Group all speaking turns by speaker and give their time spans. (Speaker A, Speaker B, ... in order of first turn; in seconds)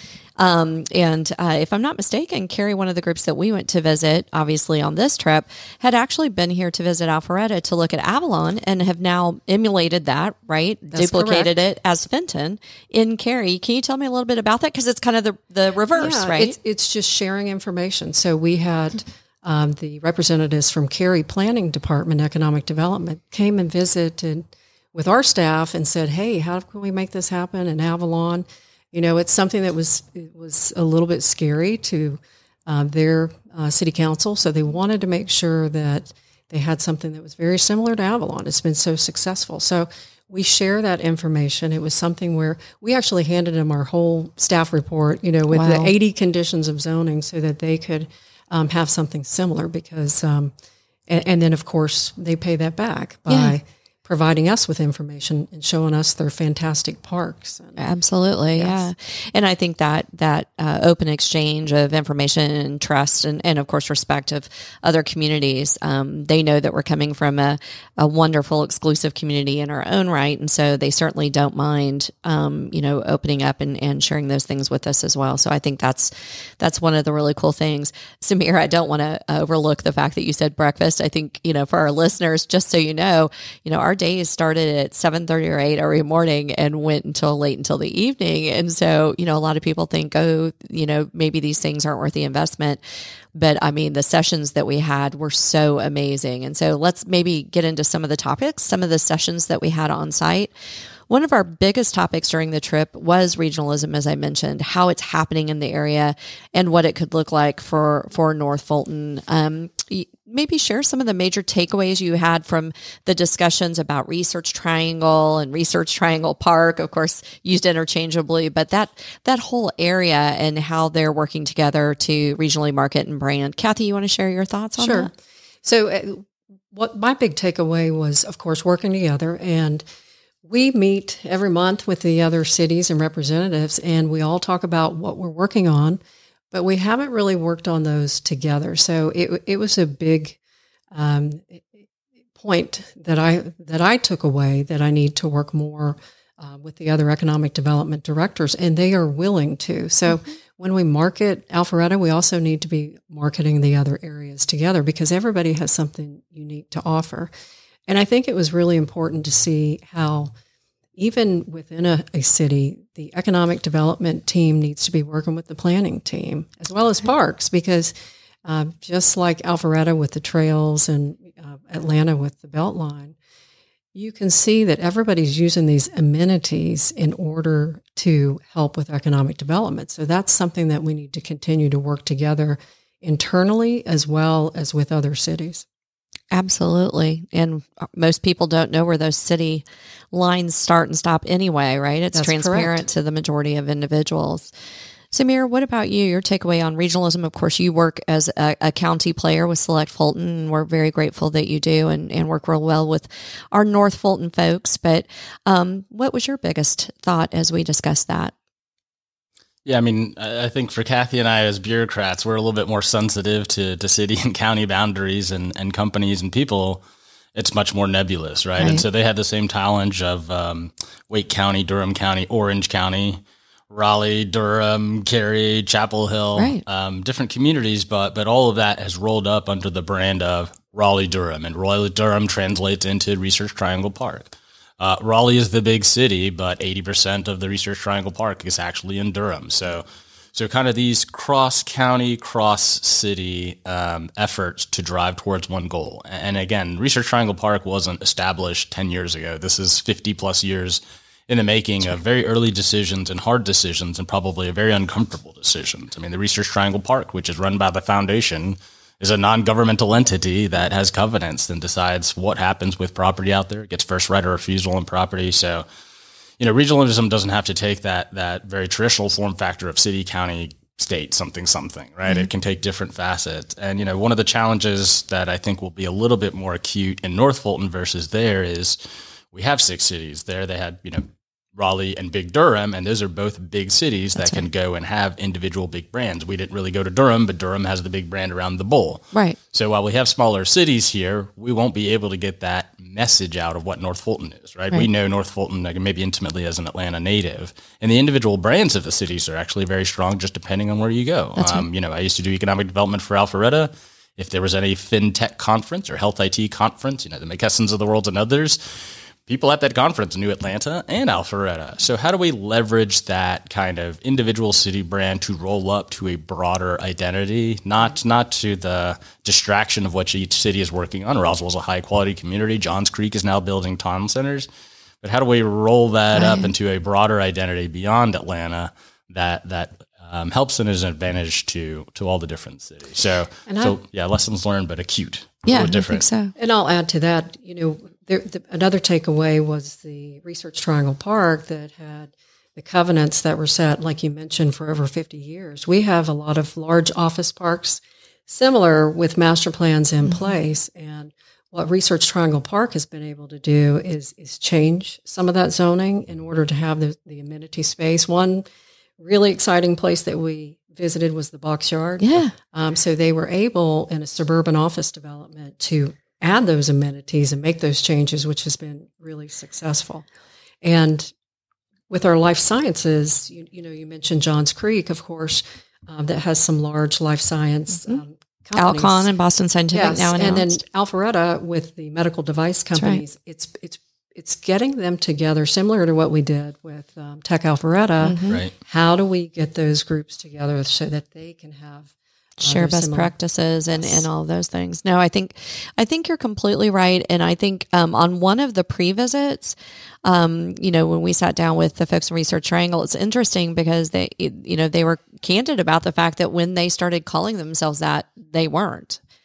Speaker A: 0.4-16.6, 45.5-45.9, 53.3-53.5, 57.8-92.8, 93.3-100.5, 101.1-125.1, 186.3-194.5, 195.1-208.3, 218.6-218.8, 226.3-226.6, 284.2-284.4, 301.4-301.6, 326.1-326.5, 335.4-336.3, 350.0-350.3, 362.0-362.3, 378.6-380.6, 382.8-383.0, 388.0-388.4, 392.4-409.0
Speaker B: 10.9-11.5, 15.9-50.5, 51.1-57.9, 58.5-58.9, 124.8-125.1, 125.6-129.8, 130.4-136.0, 136.5-140.4, 140.9-141.8, 142.4-157.3, 157.9-160.3, 161.0-167.9, 168.4-173.2, 173.9-185.6, 192.1-192.8, 333.5-333.8, 336.4-358.4, 359.0-370.1, 370.6-371.1, 371.9-379.1, 379.7-391.9, 392.4-393.1, 393.7-394.1
Speaker C: 209.6-216.8, 217.3-265.6, 266.4-278.8, 279.3-324.5, 325.0-336.0